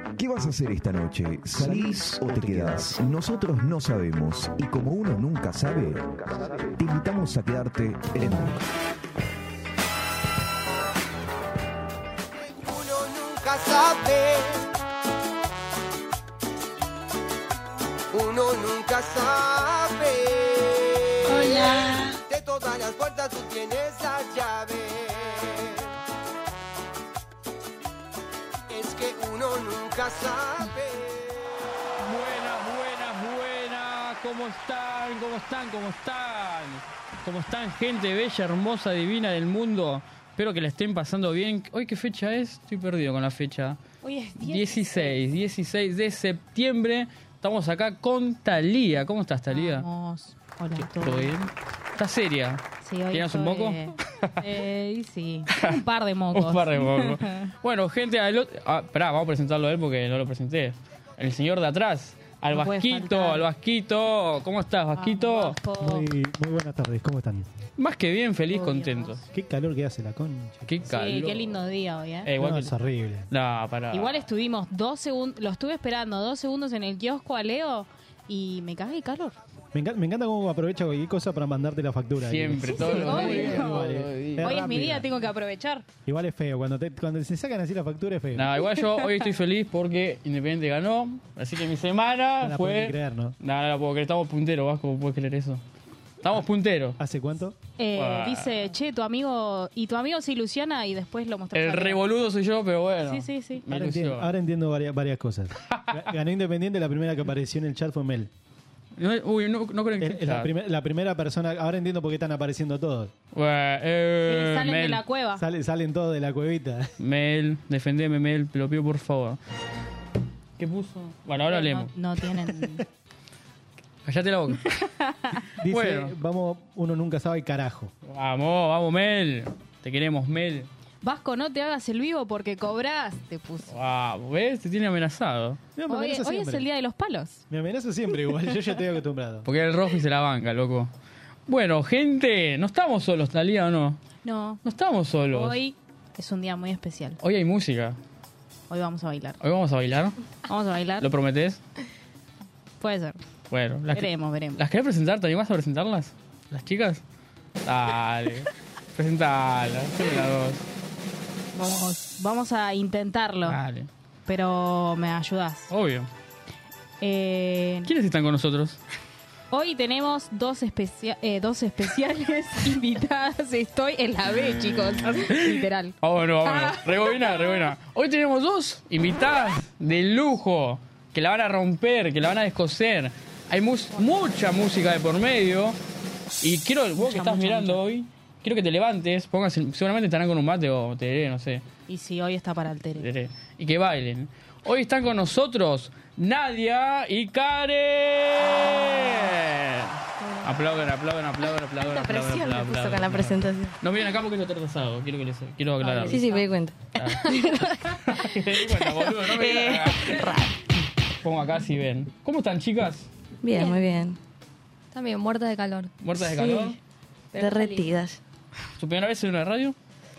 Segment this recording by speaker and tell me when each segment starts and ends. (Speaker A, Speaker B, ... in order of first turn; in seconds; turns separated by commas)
Speaker A: 0.2-8.6, Speaker B: 12.4-14.7, Speaker B: 18.1-25.9, Speaker B: 28.7-31.4, Speaker C: 32.0-43.8, Speaker D: 44.0-45.2, Speaker C: 44.4-49.9, Speaker D: 49.5-51.3, Speaker C: 50.8-54.5, Speaker D: 52.8-57.5, Speaker C: 56.3-65.6, Speaker D: 62.5-63.5, Speaker D: 65.0-66.1, Speaker E: 65.8-67.5, Speaker C: 67.8-69.2, Speaker D: 68.5-69.2, Speaker E: 69.3-70.6, Speaker C: 70.7-71.6, Speaker D: 70.9-72.3, Speaker C: 72.2-72.7, Speaker E: 72.4-73.3, Speaker C: 73.3-74.1, Speaker D: 73.9-79.4, Speaker E: 79.7-85.1, Speaker C: 82.2-85.0, Speaker D: 82.7-85.8, Speaker E: 86.1-88.7, Speaker C: 88.4-95.6, Speaker D: 88.8-89.2, Speaker E: 92.4-93.3, Speaker C: 96.2-97.0, Speaker E: 97.0-97.5, Speaker D: 97.8-102.0, Speaker C: 97.9-98.5, Speaker C: 101.5-104.3, Speaker D: 103.1-103.6, Speaker E: 103.7-108.3, Speaker C: 105.7-106.0, Speaker C: 109.0-110.5, Speaker E: 110.0-113.1, Speaker C: 113.3-115.0, Speaker D: 114.3-115.4, Speaker E: 115.4-116.9, Speaker C: 117.0-119.4, Speaker C: 120.6-121.9, Speaker D: 121.5-122.8, Speaker C: 124.0-124.7, Speaker D: 125.1-125.4, Speaker E: 125.6-127.9, Speaker C: 125.7-126.1, Speaker C: 128.1-130.7, Speaker D: 131.0-133.7, Speaker C: 133.7-135.6, Speaker E: 135.8-136.7, Speaker D: 135.9-137.4, Speaker E: 137.5-139.5, Speaker C: 139.4-140.9, Speaker C: 141.5-144.0, Speaker D: 144.2-144.6, Speaker C: 144.6-145.6, Speaker D: 145.3-147.2, Speaker C: 147.2-148.0, Speaker D: 148.7-149.4, Speaker C: 149.4-150.2, Speaker D: 150.5-151.1, Speaker C: 151.0-151.6, Speaker D: 152.8-153.2, Speaker C: 153.5-157.0, Speaker D: 153.9-154.6, Speaker C: 157.7-160.6, Speaker D: 161.6-163.6, Speaker C: 163.4-163.9, Speaker D: 164.3-165.7, Speaker C: 165.7-166.1, Speaker D: 167.0-167.9, Speaker C: 167.8-168.8, Speaker D: 169.5-175.9, Speaker C: 175.3-185.8, Speaker D: 176.5-177.1, Speaker C: 186.4-191.6, Speaker D: 187.0-187.8, Speaker D: 191.9-193.1, Speaker C: 193.0-206.2, Speaker F: 200.2-200.5, Speaker G: 201.8-203.8, Speaker D: 205.8-206.4, Speaker G: 206.0-208.0, Speaker C: 207.0-210.3, Speaker G: 208.7-210.6, Speaker C: 211.2-213.1, Speaker G: 213.4-214.2, Speaker F: 214.9-215.9, Speaker C: 216.0-216.8, Speaker G: 216.2-216.8, Speaker F: 217.3-217.9, Speaker G: 217.3-218.2, Speaker C: 218.8-219.8